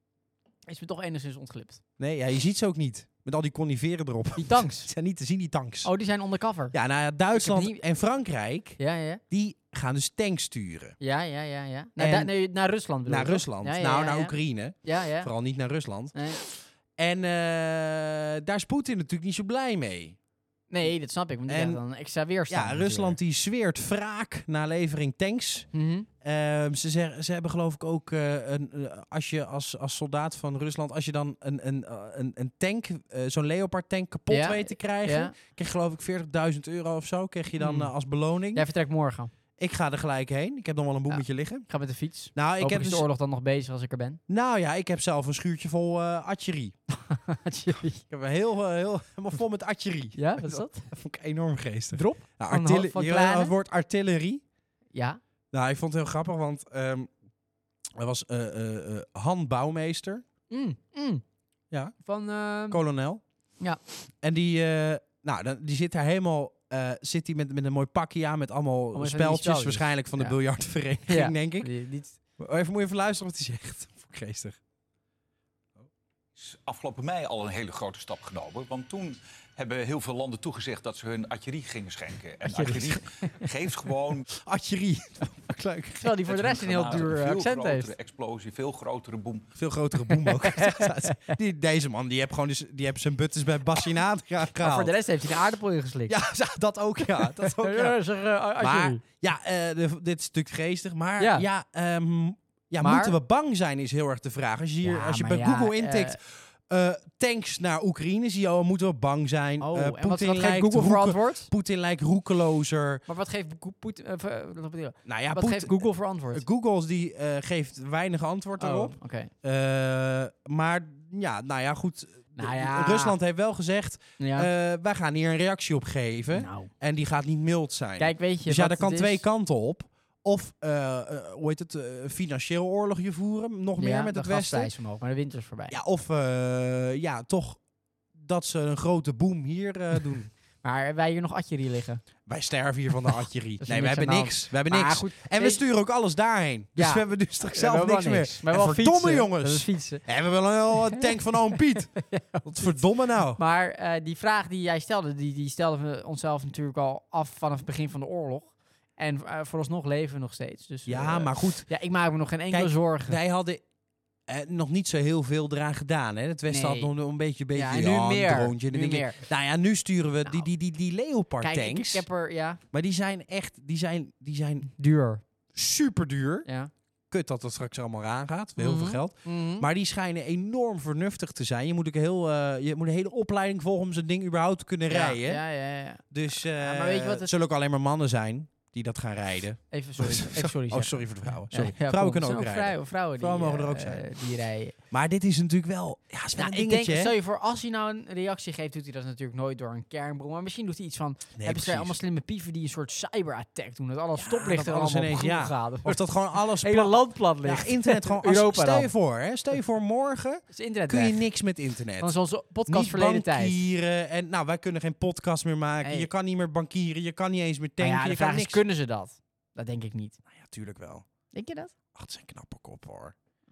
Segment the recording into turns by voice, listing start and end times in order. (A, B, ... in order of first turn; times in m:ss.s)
0:00.7-0:01.8 A
0:02.0-0:05.9 B
0:04.4-0:04.9 A
0:05.8-0:06.8 A
0:06.7-0:08.8 B
0:07.3-0:07.8 A
0:08.8-0:09.2 A
0:09.3-0:11.0 B
0:11.0-0:15.3 A
0:12.0-0:12.3 B
0:13.1-0:20.2 B
0:16.1-0:16.4 A
0:20.7-0:23.2 A
0:21.5-0:21.8 B
0:22.5-0:25.7 B
0:25.7-0:26.1 A
0:26.2-0:38.7 B
0:34.3-0:35.3 A
0:37.6-0:37.9 A
0:38.6-0:39.3 A
0:39.6-0:41.7 B
0:41.1-0:44.2 A
0:42.4-0:43.0 B
0:44.3-0:46.8 B
0:46.9-0:48.0 A
0:47.9-0:54.4 B
0:50.2-0:50.9 A
0:51.9-0:53.5 A
0:54.9-0:55.2 A
0:55.5-0:57.1 B
0:58.0-1:00.2 B
1:00.5-1:01.2 A
1:02.0-1:02.8 A
1:02.7-1:03.2 B
1:04.2-1:11.7 B
1:08.9-1:10.4 A
1:11.1-1:12.2 A
1:12.4-1:14.6 B
1:16.4-1:24.3 C
1:22.5-1:23.5 A
1:24.4-1:26.3 B
1:26.0-1:27.9 A
1:26.3-1:29.5 C
1:29.6-1:34.9 B
1:30.1-1:31.4 A
1:34.6-1:36.2 A
1:36.1-1:38.0 B
1:37.1-1:39.0 A
1:38.6-1:53.0 B
1:41.2-1:41.5 A
1:42.8-1:43.2 A
1:44.8-1:46.2 A
1:49.6-1:51.5 A
1:53.1-1:56.4 A
1:55.1-2:14.7 B
1:58.6-1:59.3 A
2:02.4-2:03.2 A
2:04.2-2:04.5 A
2:06.3-2:06.7 A
2:08.0-2:09.2 A
2:13.8-2:15.8 A
2:15.7-2:17.6 B
2:18.1-2:20.3 B
2:20.6-2:22.0 A
2:22.3-2:33.4 B
2:23.1-2:25.6 A
2:26.8-2:30.0 A
2:31.0-2:32.8 A
2:33.4-2:43.2 A
2:40.9-2:41.7 B
2:42.5-2:43.6 B
2:44.3-2:52.1 B
2:46.5-2:46.9 A
2:47.5-2:49.2 A
2:51.4-2:52.6 A
2:52.7-2:54.7 B
2:54.7-2:55.2 A
2:55.5-2:56.5 B
2:56.5-2:56.7 A
2:57.1-3:05.4 B
2:58.6-2:59.7 A
3:04.9-3:06.0 A
3:06.1-3:14.1 B
3:06.6-3:07.3 A
3:09.7-3:14.8 A
3:14.9-3:17.1 B
3:16.4-3:28.9 A
3:21.4-3:22.0 B
3:24.2-3:38.6 B
3:30.5-3:31.2 A
3:32.0-3:33.6 A
3:35.8-3:36.1 A
3:37.8-3:40.2 A
3:40.3-3:41.1 B
3:41.3-3:41.7 A
3:42.0-3:43.2 B